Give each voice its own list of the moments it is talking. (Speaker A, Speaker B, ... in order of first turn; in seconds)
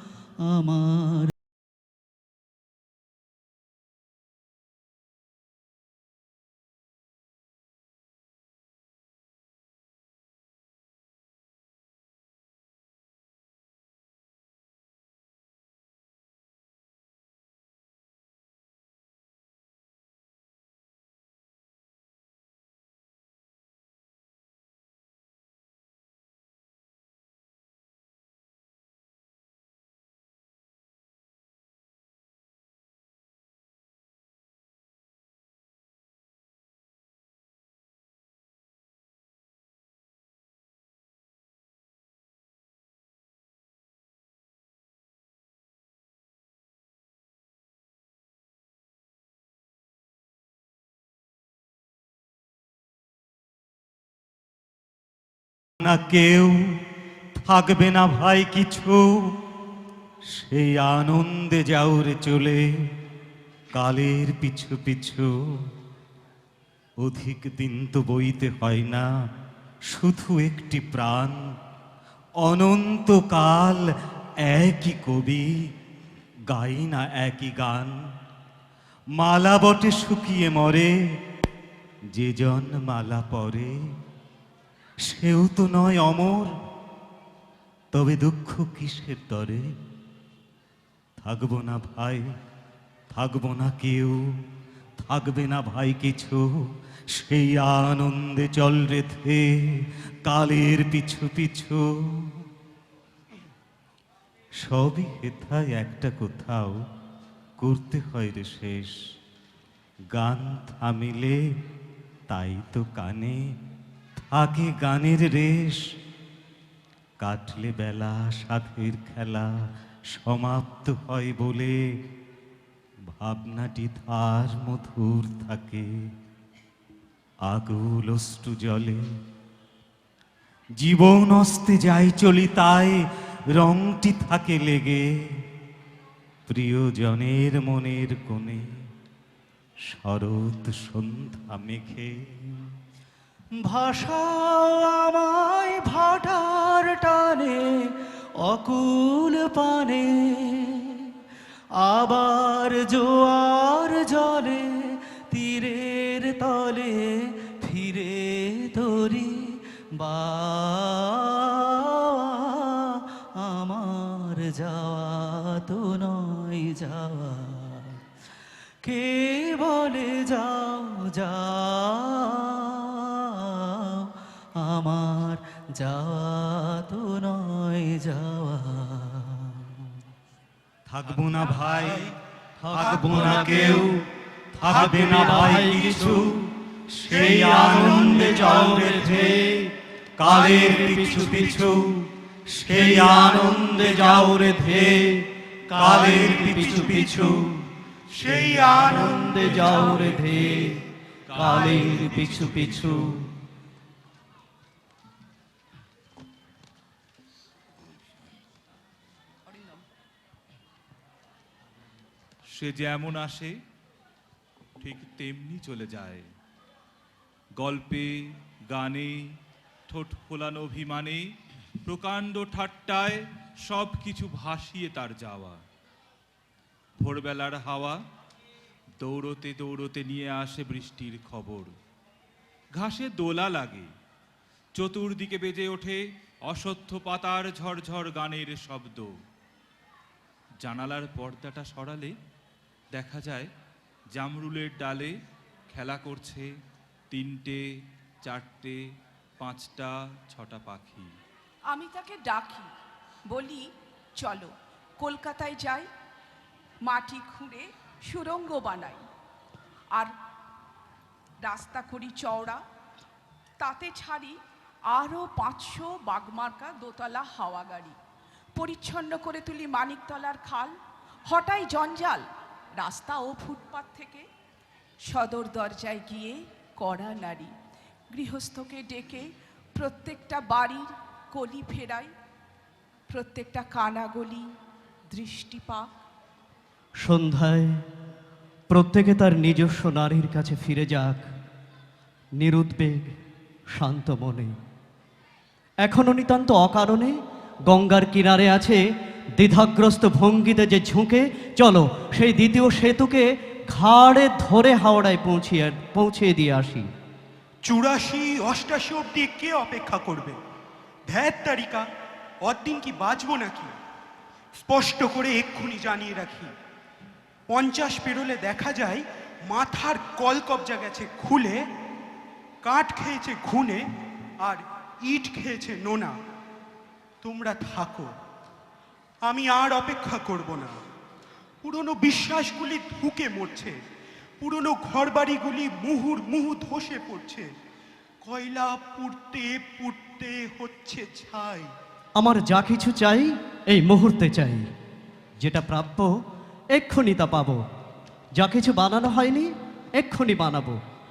Speaker A: 0.4-1.3, 143.7-144.9, 145.9-150.9, 151.8-168.0, 168.8-179.8, 187.2-188.4
Speaker B: 55.8-56.8, 57.4-59.3, 60.4-62.7, 63.7-65.3, 67.0-69.1, 69.9-71.5, 72.4-73.9, 74.4-75.5, 76.5-78.0, 79.2-80.9, 82.1-83.8, 85.0-86.5, 87.9-89.7, 91.2-92.3, 93.1-94.2, 95.0-96.5, 97.2-102.5, 104.6-106.8, 107.6-108.9, 110.1-111.4, 112.3-113.4, 114.2-115.8, 117.2-119.5, 120.1-121.8, 123.2-125.9, 127.4-129.0, 130.8-135.1, 136.5-138.6, 139.9-142.7, 180.9-182.1, 182.6-184.0, 184.5-189.3, 190.2-194.9, 195.7-197.4
Speaker C: 144.9-147.4, 185.0-185.9, 188.7-189.6, 194.0-195.0, 196.4-196.9, 198.6-200.8, 201.3-203.2, 287.0-287.8, 288.7-291.3, 292.4-293.2, 293.7-294.5, 295.8-297.1, 297.7-298.8, 299.4-306.9, 342.2-344.6, 345.4-346.1, 346.7-347.6, 348.4-350.8
Speaker D: 182.8-183.6, 184.8-185.3, 187.1-188.7, 190.3-190.8, 196.0-196.4, 198.2-200.1, 307.6-310.4, 311.1-311.8, 312.4-313.7, 314.6-316.5, 317.5-321.6, 322.6-323.8, 324.4-326.1, 327.2-328.1, 329.2-330.8, 331.6-333.8, 334.4-337.5, 338.2-341.7
Speaker E: 212.5-213.6, 214.8-216.3, 217.6-219.3, 219.9-221.3, 221.8-225.6, 227.0-228.0, 229.0-231.7, 232.8-233.9, 234.8-239.1, 240.6-242.2, 242.9-243.5, 244.1-245.2, 245.7-246.5, 247.1-247.6, 248.2-248.8, 249.4-251.1
Speaker F: 251.7-252.7, 253.3-255.9, 256.8-259.0, 261.4-262.6, 263.6-268.0, 268.5-274.2, 275.0-277.5, 278.1-282.1, 283.1-284.5, 285.1-285.9